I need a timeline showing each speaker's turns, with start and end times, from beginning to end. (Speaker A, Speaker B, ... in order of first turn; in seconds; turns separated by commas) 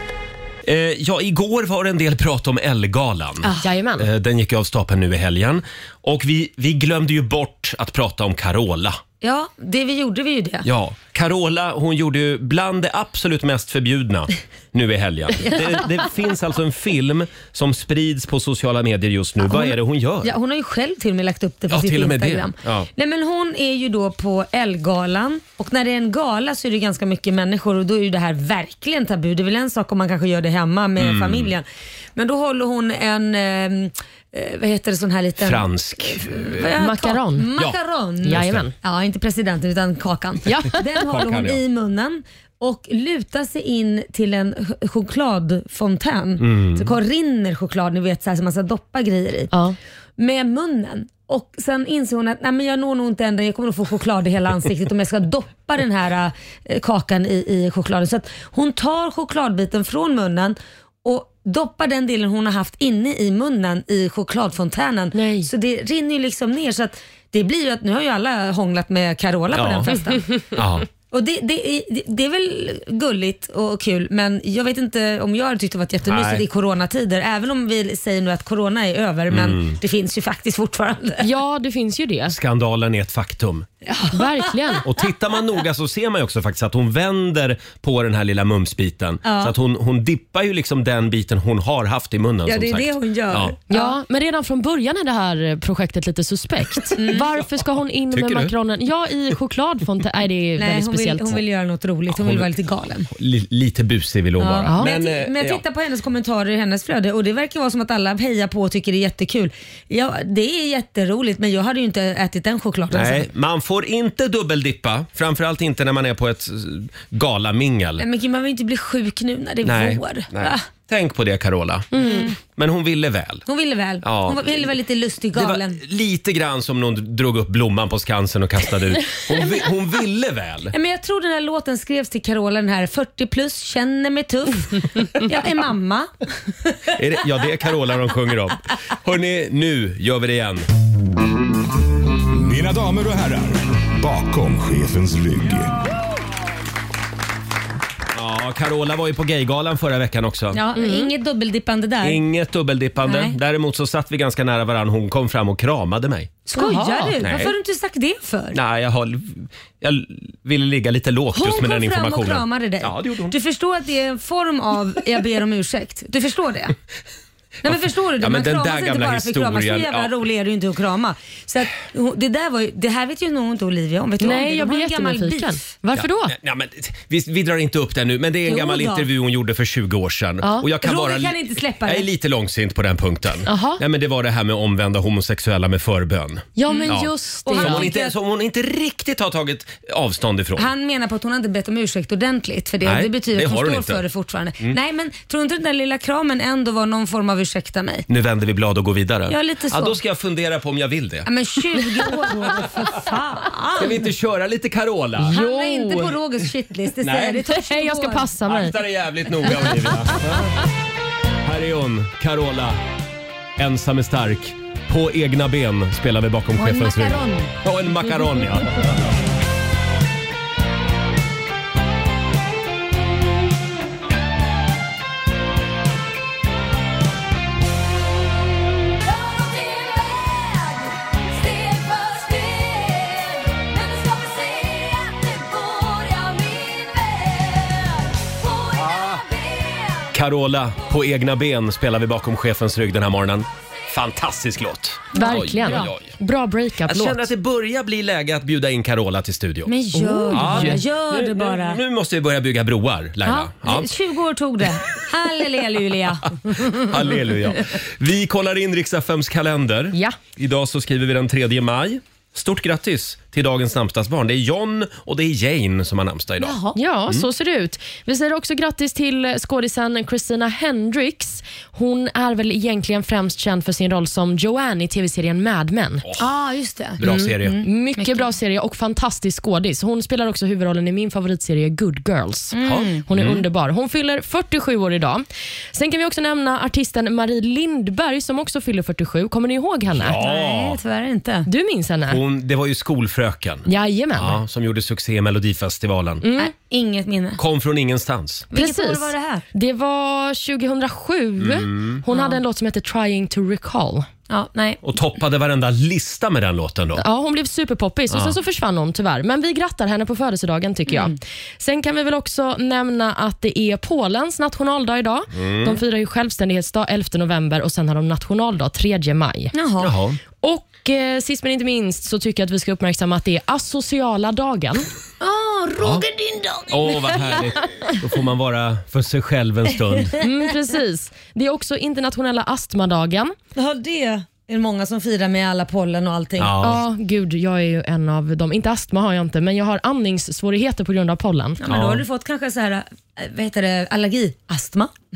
Speaker A: 0.6-9.0, Speaker B: 3.6-4.1, Speaker C: 9.2-10.7, Speaker A: 10.6-20.3, Speaker C: 15.4-15.8, Speaker C: 19.5-49.5, Speaker A: 21.7-22.9, Speaker A: 31.0-31.5, Speaker A: 35.4-36.7, Speaker B: 36.8-37.5, Speaker A: 37.5-38.7, Speaker B: 38.2-38.7, Speaker B: 40.5-40.8, Speaker A: 40.9-41.6, Speaker A: 46.4-46.9, Speaker B: 49.5-49.8, Speaker C: 50.2-70.5, Speaker B: 65.1-65.5, Speaker A: 69.5-69.9, Speaker A: 70.5-70.9, Speaker C: 71.1-81.3, Speaker A: 76.1-76.5, Speaker A: 79.3-79.8, Speaker B: 81.2-82.4, Speaker A: 82.3-83.7, Speaker C: 83.8-84.8, Speaker B: 84.1-84.8, Speaker A: 84.8-93.5, Speaker C: 89.2-89.5, Speaker C: 92.5-94.0, Speaker B: 93.7-101.4, Speaker C: 97.0-97.3, Speaker A: 98.1-98.5, Speaker C: 100.6-103.1, Speaker A: 102.1-102.5, Speaker A: 103.1-105.6, Speaker C: 104.4-113.3, Speaker B: 104.7-104.9, Speaker A: 112.9-118.0, Speaker C: 118.0-120.6, Speaker A: 119.6-123.4, Speaker C: 121.9-122.3, Speaker B: 122.0-122.2, Speaker C: 123.5-125.8, Speaker A: 124.0-124.7, Speaker A: 125.3-130.7, Speaker C: 129.3-129.6, Speaker C: 130.7-136.1, Speaker A: 136.9-140.7, Speaker D: 142.3-145.8, Speaker A: 148.1-150.6, Speaker C: 150.5-152.2, Speaker B: 150.8-151.1, Speaker A: 152.0-156.4, Speaker C: 153.0-153.3, Speaker C: 156.5-158.6, Speaker B: 156.6-157.2, Speaker A: 157.2-157.5, Speaker A: 158.5-163.3, Speaker C: 161.3-166.8, Speaker A: 167.6-170.2, Speaker C: 167.6-175.7, Speaker B: 174.2-176.3, Speaker A: 175.9-190.7, Speaker C: 178.5-179.1, Speaker B: 180.4-180.7, Speaker C: 180.8-182.1, Speaker B: 183.4-183.8, Speaker B: 186.6-187.9, Speaker C: 186.7-188.1, Speaker C: 190.6-198.1, Speaker A: 192.8-194.0, Speaker A: 198.1-202.4, Speaker C: 199.3-199.9, Speaker C: 201.2-204.0, Speaker A: 203.7-205.4, Speaker B: 205.2-206.2, Speaker C: 205.3-208.3, Speaker A: 207.0-207.5, Speaker B: 207.5-208.8, Speaker A: 208.4-210.6, Speaker B: 209.4-210.4, Speaker A: 211.4-212.8, Speaker A: 213.6-218.8, Speaker C: 216.6-217.5, Speaker C: 229.1-239.5, Speaker A: 238.8-239.2, Speaker A: 240.1-246.1, Speaker B: 245.1-247.3, Speaker C: 245.2-245.9, Speaker A: 246.8-249.7, Speaker C: 249.7-251.8, Speaker B: 249.9-250.8, Speaker A: 250.3-253.9, Speaker C: 253.2-257.1, Speaker A: 256.5-267.2, Speaker C: 266.4-266.8, Speaker B: 266.7-276.1, Speaker C: 276.2-278.3, Speaker A: 277.0-277.7, Speaker B: 277.0-290.2, Speaker C: 282.5-283.0, Speaker A: 282.6-283.4, Speaker A: 289.9-290.8, Speaker C: 290.2-291.5, Speaker B: 291.4-292.2, Speaker A: 292.1-296.2, Speaker B: 293.6-294.4, Speaker B: 296.2-296.5, Speaker C: 296.4-297.4, Speaker A: 297.4-298.5, Speaker C: 298.5-299.4, Speaker B: 298.5-304.1, Speaker A: 301.4-302.0, Speaker C: 302.1-302.4, Speaker C: 304.3-304.8, Speaker A: 304.8-307.0, Speaker B: 307.0-319.5, Speaker A: 308.1-308.4, Speaker C: 310.9-311.1, Speaker A: 315.3-315.8, Speaker C: 319.5-319.9, Speaker A: 319.8-320.2, Speaker B: 320.4-324.9, Speaker C: 325.2-327.4, Speaker A: 325.8-326.1, Speaker A: 326.7-330.1, Speaker B: 330.2-333.3, Speaker C: 333.5-336.5, Speaker A: 336.4-336.8, Speaker B: 336.6-341.6, Speaker C: 341.6-344.9, Speaker A: 341.7-342.1